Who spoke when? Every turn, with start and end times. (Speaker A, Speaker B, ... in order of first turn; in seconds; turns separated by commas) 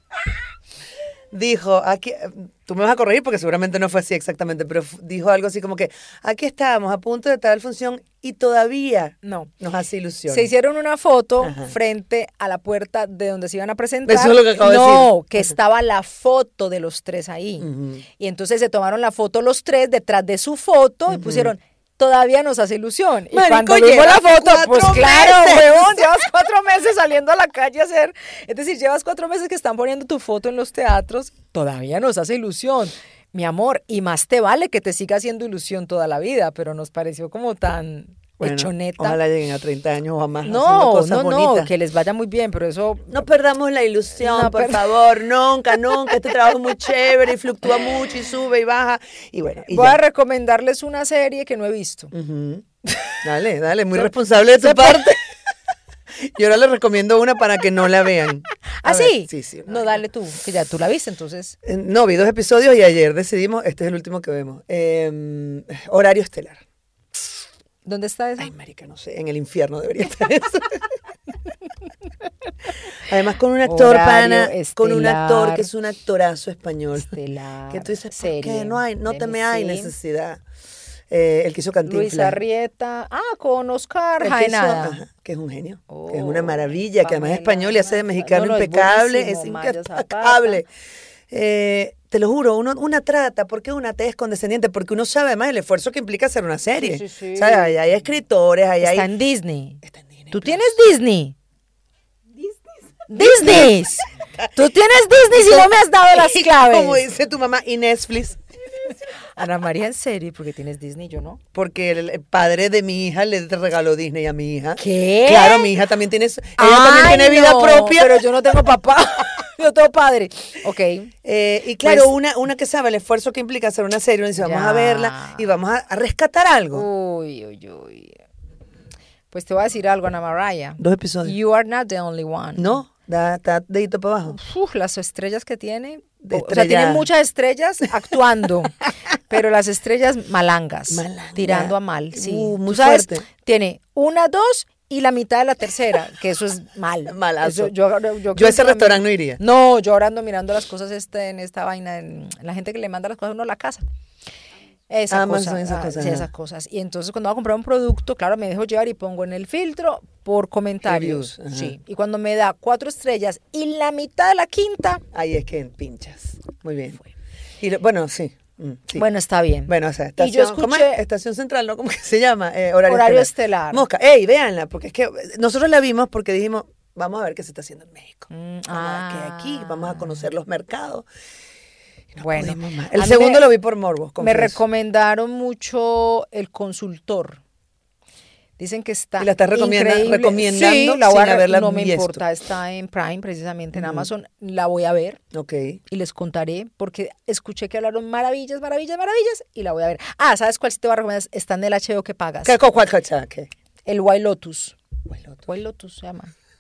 Speaker A: 1.3-10.5, Speaker B: 9.2-9.5, Speaker B: 10.3-39.2, Speaker A: 11.4-11.8, Speaker A: 14.1-15.1, Speaker A: 17.6-18.0, Speaker A: 21.1-21.5, Speaker A: 23.3-26.2, Speaker A: 38.4-41.7, Speaker B: 40.4-43.2, Speaker A: 43.1-50.0, Speaker B: 44.2-45.0, Speaker B: 45.8-46.1, Speaker B: 49.7-52.1, Speaker A: 52.1-52.7, Speaker A: 53.2-55.2, Speaker B: 54.0-55.1, Speaker A: 56.2-60.0, Speaker B: 58.8-61.6, Speaker A: 61.6-66.6, Speaker B: 67.8-68.5, Speaker A: 68.4-70.9, Speaker A: 73.0-77.1, Speaker B: 73.6-75.7, Speaker B: 77.0-79.9, Speaker A: 77.7-80.4, Speaker A: 81.1-82.4, Speaker B: 81.9-85.0, Speaker A: 84.2-90.7, Speaker B: 85.9-90.6, Speaker A: 91.3-99.1, Speaker B: 96.8-97.8, Speaker B: 98.8-101.4, Speaker A: 99.8-100.7, Speaker B: 103.1-107.0, Speaker A: 103.2-104.7, Speaker A: 105.3-108.4, Speaker B: 109.3-111.4, Speaker A: 111.5-118.3, Speaker B: 114.8-115.7, Speaker B: 116.6-121.1, Speaker A: 121.2-126.9, Speaker B: 121.8-122.1, Speaker B: 124.4-125.5, Speaker B: 126.7-128.2, Speaker B: 129.3-132.8, Speaker A: 130.8-131.3, Speaker A: 132.6-134.4, Speaker B: 134.3-153.8, Speaker A: 136.2-137.1, Speaker A: 140.9-143.3, Speaker A: 147.1-147.7, Speaker A: 148.3-149.4, Speaker B: 154.9-165.0, Speaker A: 155.1-156.3, Speaker A: 160.8-161.8, Speaker A: 165.1-167.0, Speaker A: 167.6-169.1, Speaker B: 168.9-171.0, Speaker A: 169.7-181.1, Speaker B: 172.9-173.8, Speaker B: 178.3-180.3, Speaker A: 182.1-184.6, Speaker B: 182.2-183.5, Speaker B: 184.2-187.4, Speaker B: 188.6-195.2, Speaker A: 189.2-192.2, Speaker A: 193.7-194.1, Speaker A: 195.3-195.8, Speaker B: 195.9-202.6, Speaker A: 202.4-203.5, Speaker B: 203.9-204.8, Speaker A: 205.1-205.4, Speaker B: 205.5-206.3